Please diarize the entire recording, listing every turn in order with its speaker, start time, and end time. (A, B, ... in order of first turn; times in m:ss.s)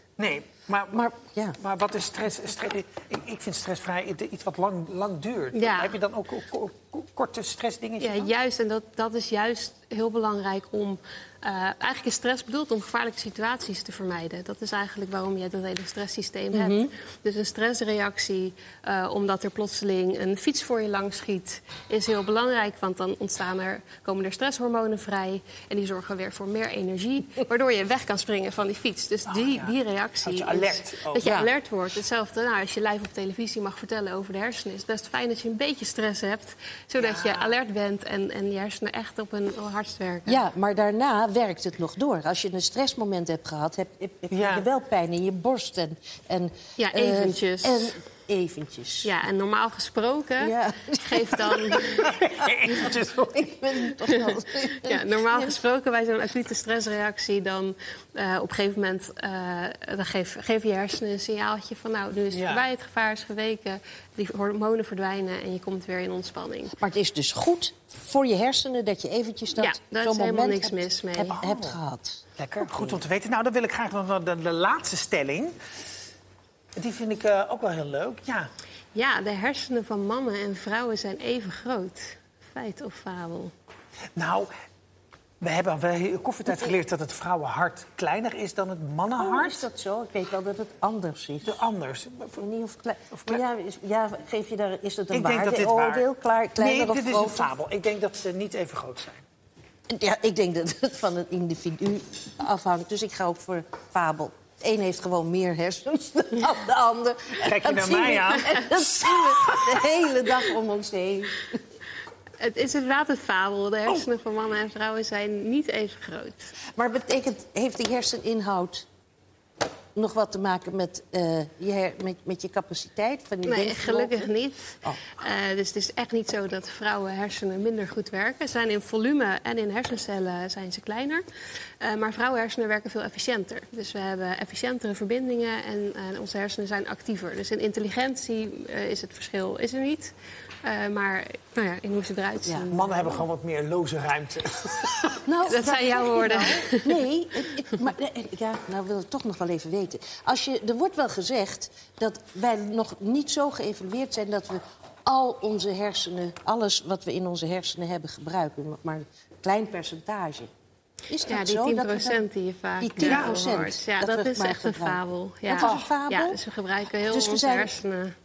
0:00.2-0:08.3 A
0:00.9-0:01.6 B
0:05.5-0:06.0 C
0:08.0-0:40.4 C
0:16.5-0:16.9 B
0:29.3-0:31.3 A
0:31.2-0:31.5 B
0:37.0-0:37.5 A
0:40.3-0:49.1 B
0:44.3-0:44.7 A
0:46.8-0:48.0 C
0:49.0-0:52.2 C
0:50.4-0:55.6 B
0:52.0-0:53.5 A
0:54.1-1:06.7 C
1:02.3-1:02.6 A
1:06.8-1:13.0 B
1:09.5-1:11.4 C
1:11.3-1:11.8 A
1:12.4-1:15.5 A
1:16.8-1:18.5 A
1:18.9-1:23.5 C
1:24.2-1:24.5 A
1:25.4-1:29.6 A
1:29.2-1:31.6 B
1:31.4-1:32.4 A
1:32.4-1:37.5 B
1:33.1-1:33.4 A
1:35.1-1:39.2 A
1:39.9-1:51.6 B
1:47.4-1:49.8 A
1:52.4-1:56.6 C
1:56.7-1:58.8 B
1:59.9-2:04.3 B
2:03.4-2:11.2 C
2:11.8-2:23.2 C
2:22.7-2:25.2 A
2:25.2-2:40.5 B
2:25.4-2:27.0 C
2:41.1-2:42.2 B
2:41.3-2:48.2 C
2:42.8-2:46.4 B
2:43.0-2:43.4 A
2:45.6-2:45.9 A
2:47.0-2:47.7 B